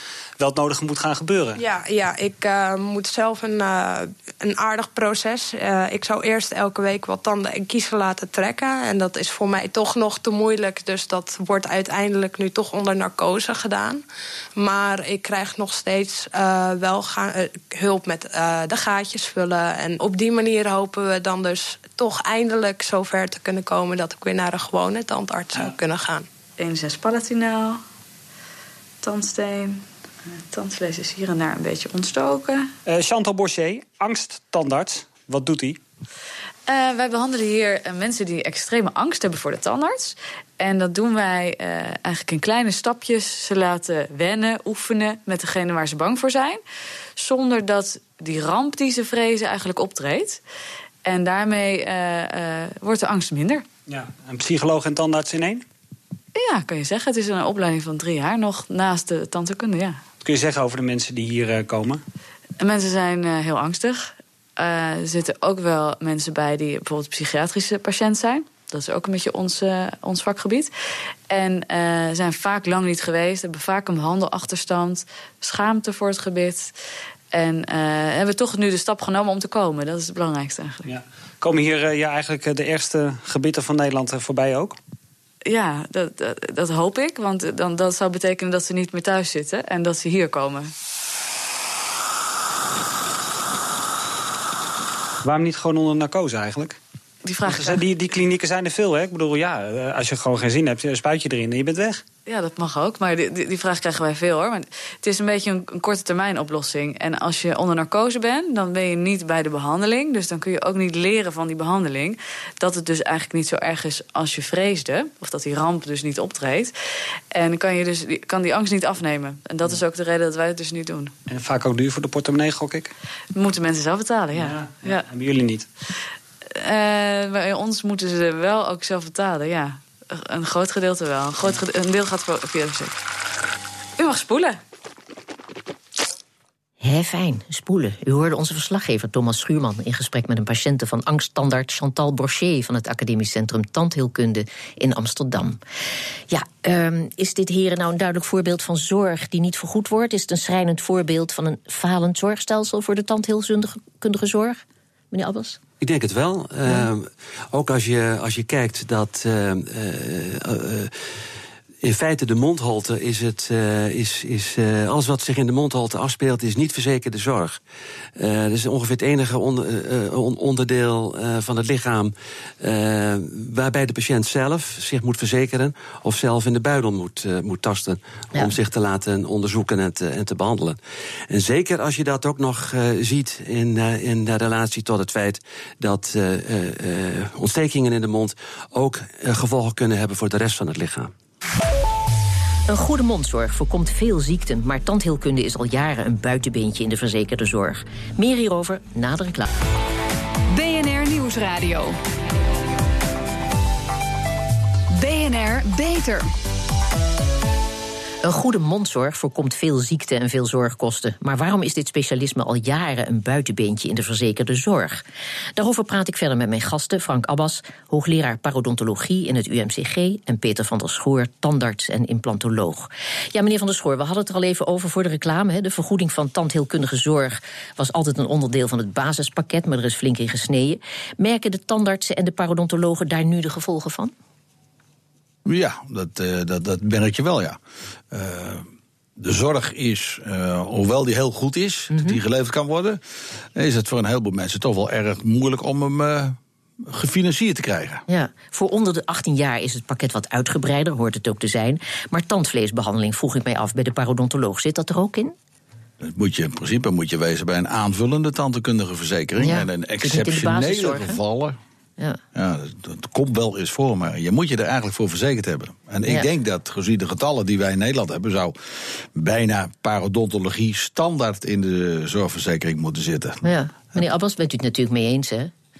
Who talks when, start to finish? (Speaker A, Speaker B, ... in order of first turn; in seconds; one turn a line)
Speaker A: 0.4-1.6
Speaker B: 1.6-14.0
Speaker B: 14.6-26.3
Speaker C: 26.6-27.8
Speaker C: 29.0-32.7
Speaker A: 32.9-35.8
Speaker C: 36.7-46.6
Speaker C: 47.2-50.4
Speaker C: 51.0-53.6
Speaker A: 53.9-55.6
Speaker C: 56.3-60.0
Speaker A: 60.2-62.0
Speaker C: 62.6-70.7
Speaker C: 71.3-76.7
Speaker C: 77.3-80.9
Speaker A: 80.8-84.8
Speaker C: 85.4-90.7
Speaker A: 95.2-96.8
Speaker C: 97.2-97.8
Speaker A: 97.4-102.0
Speaker C: 102.2-116.7
Speaker C: 117.3-121.1
Speaker A: 121.3-122.9
Speaker C: 123.3-125.0
Speaker A: 124.3-125.7
Speaker C: 126.5-133.0
Speaker C: 134.0-134.6
Speaker D: 136.8-145.6
Speaker D: 146.3-155.6
Speaker E: 155.8-160.9
Speaker E: 161.8-167.6
Speaker E: 168.2-180.8
Speaker E: 181.3-191.1
Speaker D: 192.7-199.5
Speaker F: 200.5-202.0
Speaker F: 204.9-206.3
Speaker D: 208.2-215.0
Speaker D: 215.6-234.1
Speaker G: 235.4-237.6
Speaker G: 238.1-238.7
Speaker G: 239.2-243.0
Speaker D: 241.9-242.2
Speaker G: 243.6-248.0
Speaker D: 248.1-255.3
Speaker G: 256.0-261.6
Speaker D: 259.4-261.2
Speaker G: 262.3-273.4
Speaker D: 273.4-275.5